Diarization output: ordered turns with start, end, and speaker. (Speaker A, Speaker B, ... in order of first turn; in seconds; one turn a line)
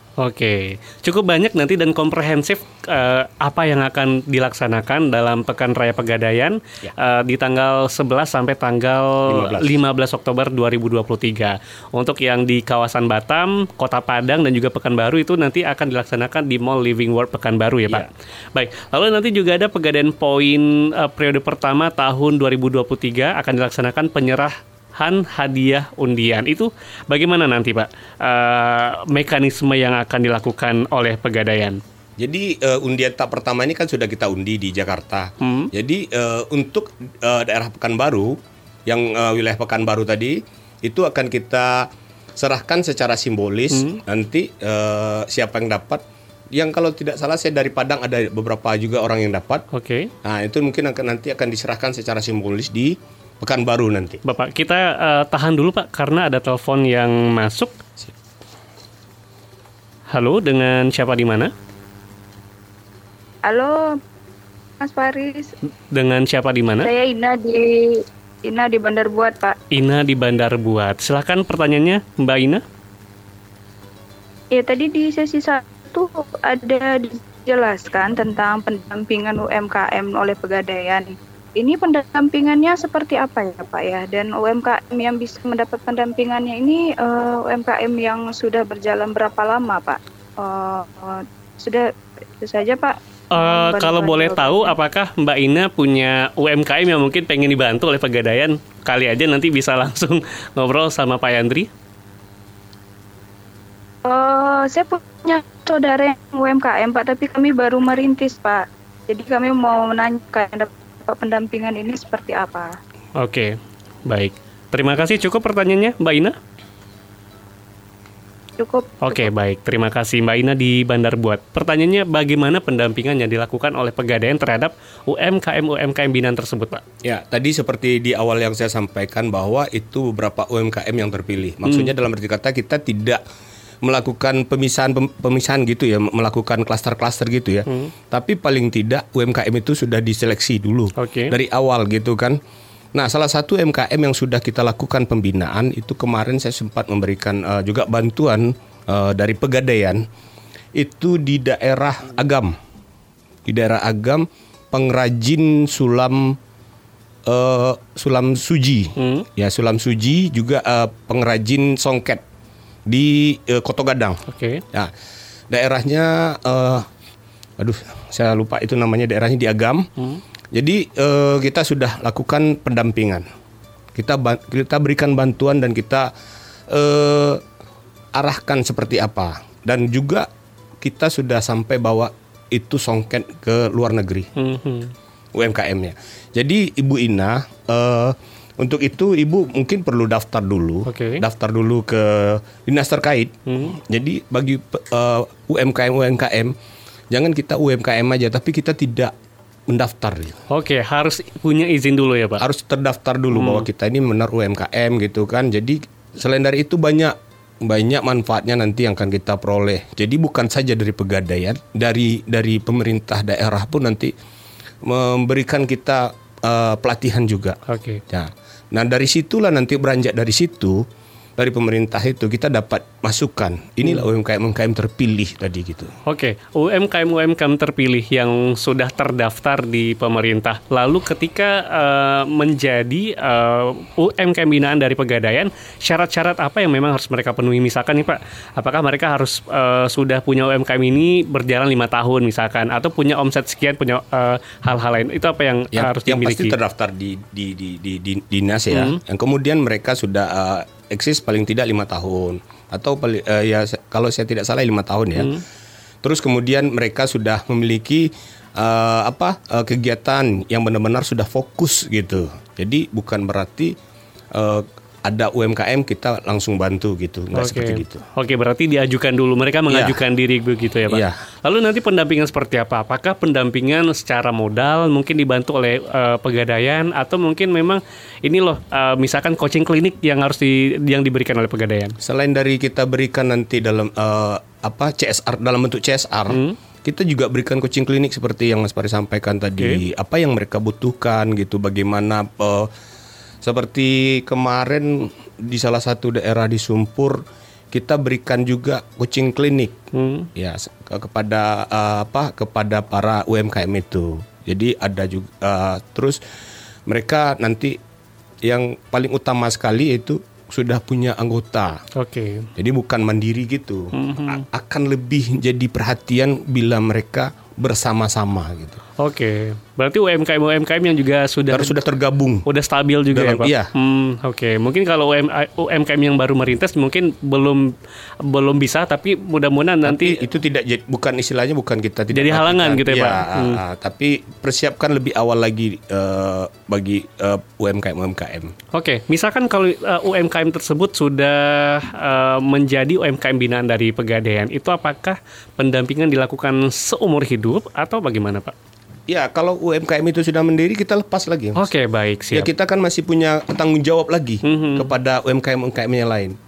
Speaker A: 0.2-31.8
Speaker B: 9.2-9.8
Speaker B: 32.2-49.6
Speaker A: 35.4-35.7
Speaker A: 43.7-44.0
Speaker A: 49.7-50.1
Speaker B: 50.2-54.2
Speaker A: 54.2-57.7
Speaker A: 60.1-61.5
Speaker C: 63.5-64.0
Speaker C: 64.8-65.5
Speaker A: 65.9-66.9
Speaker C: 66.8-69.6
Speaker A: 69.7-72.6
Speaker C: 74.5-94.8
Speaker A: 93.3-101.7
Speaker C: 104.0-112.7
Speaker A: 113.2-116.4
Speaker C: 118.6-119.3
Speaker A: 119.0-126.8
Speaker B: 127.0-133.2
Speaker A: 131.7-131.9
Speaker B: 133.8-142.4
Speaker A: 137.7-137.9
Speaker A: 140.9-141.3
Speaker B: 142.9-150.0
Speaker B: 150.7-152.6
Speaker B: 153.4-156.4
Speaker B: 157.2-162.2
Speaker A: 159.0-159.3
Speaker B: 162.9-164.9
Speaker A: 164.3-164.6
Speaker B: 165.5-166.9
Speaker B: 167.6-169.9
Speaker B: 170.5-173.2
Speaker B: 173.9-176.1
Speaker B: 176.7-177.4
Speaker B: 178.1-180.3
Speaker B: 180.8-184.3
Speaker A: 184.4-184.9
Speaker B: 185.3-196.5
Speaker A: 190.9-191.2
Speaker A: 193.5-193.8
Speaker B: 197.1-199.1
Speaker B: 199.7-200.4
Speaker A: 200.5-202.4
Speaker B: 202.4-214.1
Speaker A: 203.3-203.7
Speaker B: 214.8-220.8
Speaker A: 217.7-218.0
Speaker B: 221.4-225.9
Speaker A: 226.1-246.6
Speaker B: 245.7-255.3
Speaker A: 248.7-249.0
Speaker A: 255.2-255.4
Speaker B: 256.0-263.8
Speaker B: 264.3-268.0
Speaker A: 267.3-281.9
Speaker B: 269.7-270.0
Speaker B: 270.9-271.2
Speaker B: 282.0-292.7
Speaker A: 286.3-286.6
Speaker B: 293.4-299.8
Speaker A: 299.9-300.3
Speaker B: 300.3-306.2
Speaker B: 306.9-307.8
Speaker B: 308.4-311.8
Speaker A: 311.9-312.5
Speaker B: 312.6-318.8
Speaker A: 313.9-314.4
Speaker A: 319.0-321.8
Speaker B: 321.5-322.5
Speaker A: 322.4-330.2
Speaker B: 323.1-323.7
Speaker B: 329.8-338.5
Speaker A: 332.1-333.6
Speaker A: 338.7-348.5
Speaker B: 349.1-351.7
Speaker A: 351.6-352.5
Speaker B: 352.3-356.4
Speaker A: 354.4-354.9